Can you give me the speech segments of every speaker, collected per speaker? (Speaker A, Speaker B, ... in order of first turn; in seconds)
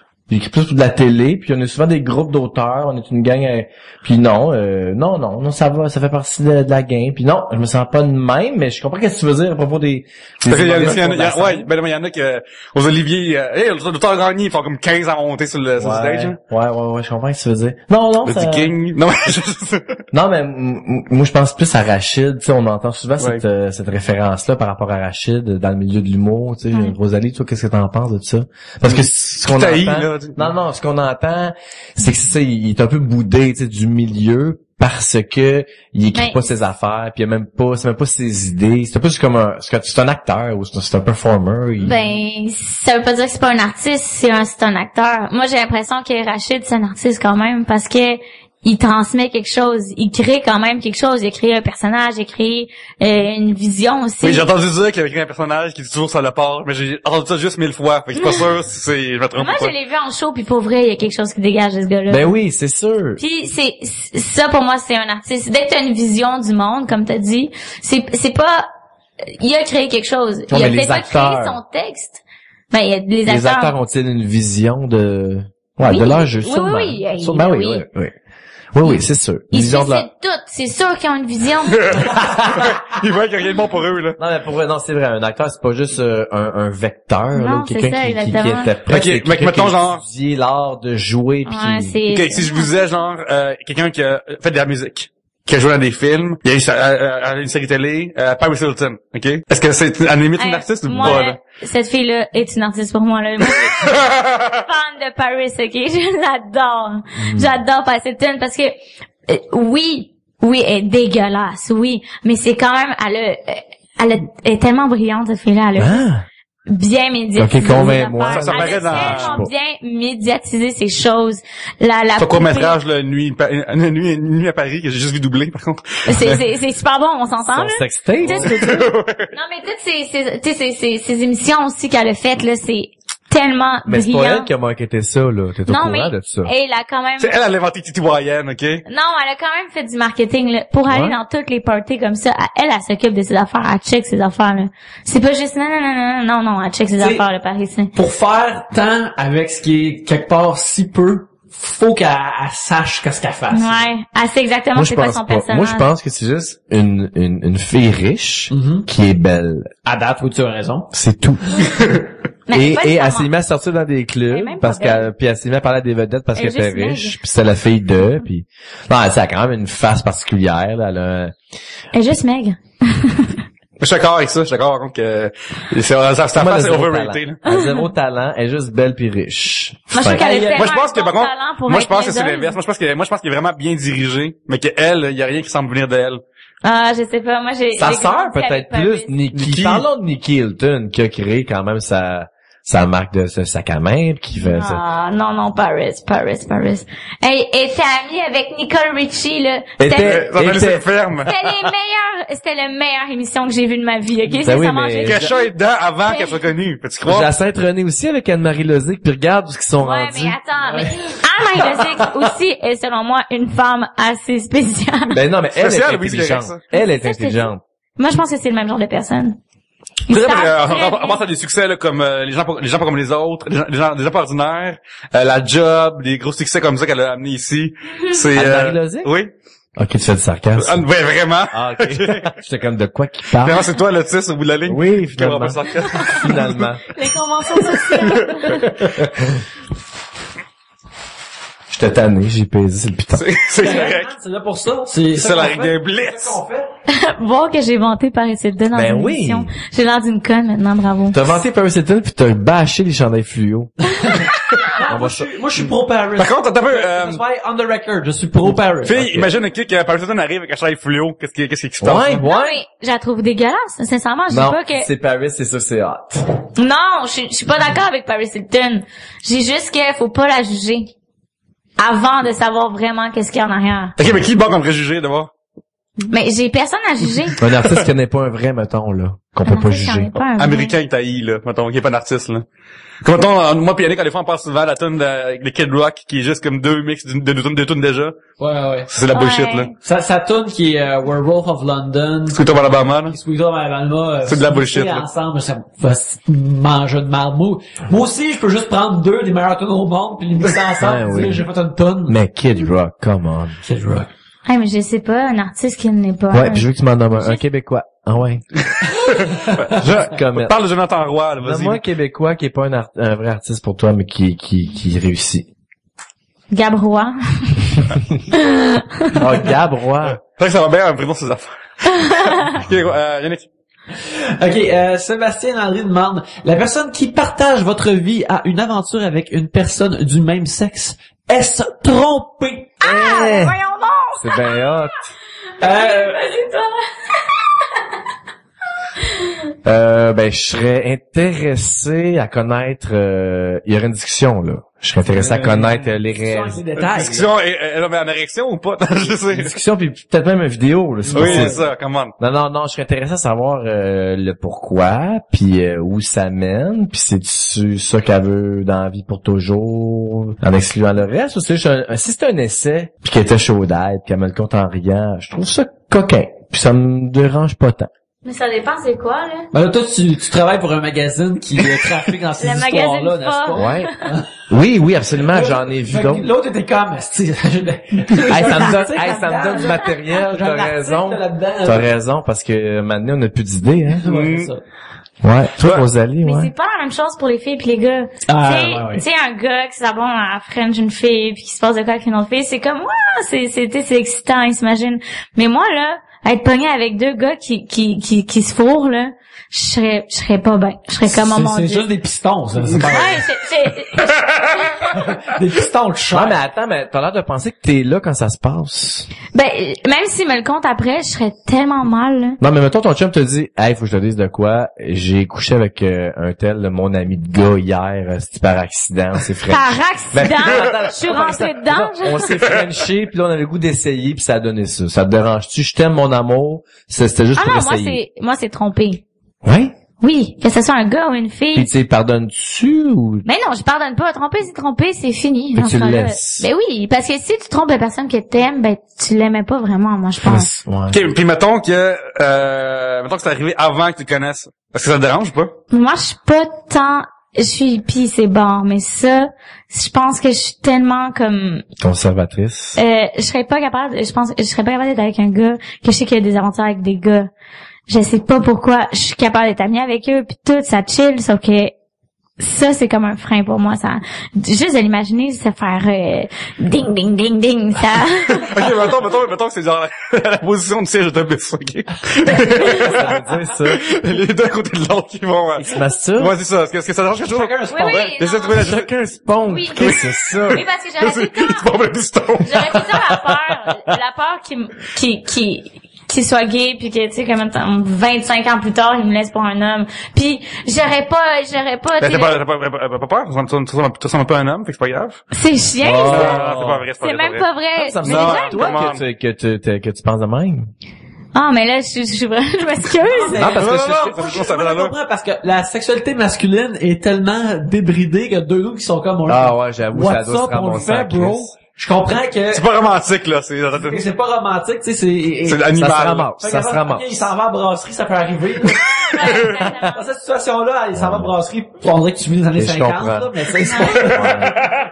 Speaker A: 0.3-11.7, 15.8-18.7, 20.1-42.0, 62.1-63.2, 70.5-71.6, 73.2-78.1, 78.7-80.1, 82.1-82.7, 84.2-92.0, 107.2-107.5, 115.8-116.2, 117.4-119.5, 127.5-128.5, 133.8-136.5, 140.9-141.2, 154.7-159.7, 160.9-162.0, 162.5-171.3, 176.3-180.3, 187.7-194.8, 199.8-200.8, 204.4-205.2, 207.1-210.4, 215.1-217.6, 228.3-229.1, 229.8-230.8, 231.5-233.6, 234.7-236.8, 238.5-239.4, 241.7-243.3, 248.7-249.5, 251.1-253.7, 254.8-255.3, 261.8-262.6, 264.3-266.2, 277.4-280.2, 300.8-301.4, 302.1-303.6, 306.3-308.4, 309.7-310.5, 311.4-315.5, 317.8-318.2, 319.1-320.2, 332.8-333.6, 334.1-335.1, 339.6-346.6, 349.3-351.6, 352.2-367.9, 373.5-373.9, 374.5-376.3, 378.3-384.1, 385.2-386.5, 406.1-409.1, 412.4-428.0, 429.4-429.7, 431.5-433.2, 435.5-436.4, 440.2-441.0, 451.8-452.8, 472.7-473.8, 475.6-476.3, 478.5-480.6, 495.8-496.9, 497.8-500.7, 503.3-504.3, 509.3-511.5, 515.7-517.3, 520.9-521.3, 522.5-524.7
Speaker B: 10.4-16.4, 18.2-20.0, 28.8-30.5, 54.2-59.7, 81.7-84.2, 88.9-90.0, 92.1-101.4, 103.7-104.6, 118.2-119.4, 122.2-126.4, 128.2-129.3, 137.2-138.8, 173.8-177.4, 180.5-186.2, 189.3-189.8, 200.0-201.5, 205.0-207.3, 215.6-216.6, 220.1-229.3, 230.6-232.3, 233.4-236.7, 237.8-238.9, 243.1-244.1, 245.1-246.4, 256.1-257.2, 258.8-262.2, 274.0-275.3, 280.4-282.4, 283.0-288.2, 288.9-289.7, 292.3-293.1, 294.2-295.1, 308.6-311.9, 320.0-323.5, 346.8-349.6, 351.1-352.1, 384.0-384.5, 440.9-445.5, 468.4-478.9, 479.8-483.0, 492.0-495.2, 496.0-497.4, 498.0-499.0, 503.4-504.9, 512.5-514.0, 515.4-516.2, 524.1-524.4
Speaker C: 36.1-36.4, 41.8-54.4, 58.2-58.5, 59.4-62.3, 63.2-68.7, 69.3-73.7, 75.8-77.8, 78.8-82.0, 87.3-88.7, 91.5-92.7, 100.4-104.0, 104.5-116.0, 116.7-122.8, 126.0-134.5, 135.7-137.3, 138.9-147.9, 153.5-155.9, 162.5-163.3, 164.3-165.1, 166.3-167.2, 171.9-173.4, 177.5-177.9, 179.9-182.6, 186.6-189.1, 194.3-200.2, 201.1-205.4, 206.0-206.4, 209.8-215.2, 216.7-219.4, 220.1-221.2, 236.9-238.7, 246.9-251.2, 262.2-264.9, 266.6-270.9, 271.8-273.9, 276.0-277.4, 279.4-280.7, 289.1-289.7, 304.4-307.4, 316.5-319.1, 322.0-322.4, 332.8-334.8, 335.6-337.2, 339.1-339.3, 368.2-369.5, 372.4-374.0, 378.4-378.7, 379.5-379.9, 386.2-401.9, 402.9-404.9, 409.3-412.4, 419.5-422.3, 427.4-429.0, 430.0-431.7, 433.2-440.5, 445.7-451.6, 452.8-457.3, 457.9-461.7, 462.4-468.7, 477.7-478.8, 479.4-479.9, 480.5-481.7, 482.4-492.4, 495.3-496.4, 497.0-498.8, 501.3-503.4, 519.1-520.0, 523.7-524.0
Speaker D: 147.0-147.2, 147.9-153.9, 158.5-158.9, 159.8-160.9, 180.0-180.7, 243.6-246.7, 253.9-259.2, 288.4-288.9, 289.8-302.2, 303.6-304.1, 323.9-332.8, 335.6-336.3, 345.1-347.3, 351.0-351.6, 369.5-374.3, 375.3-381.9, 384.0-384.6, 388.3-389.0, 401.1-403.3, 404.9-406.4, 472.6-473.2, 477.3-478.1, 503.0-512.7, 513.7-515.7, 516.3-524.8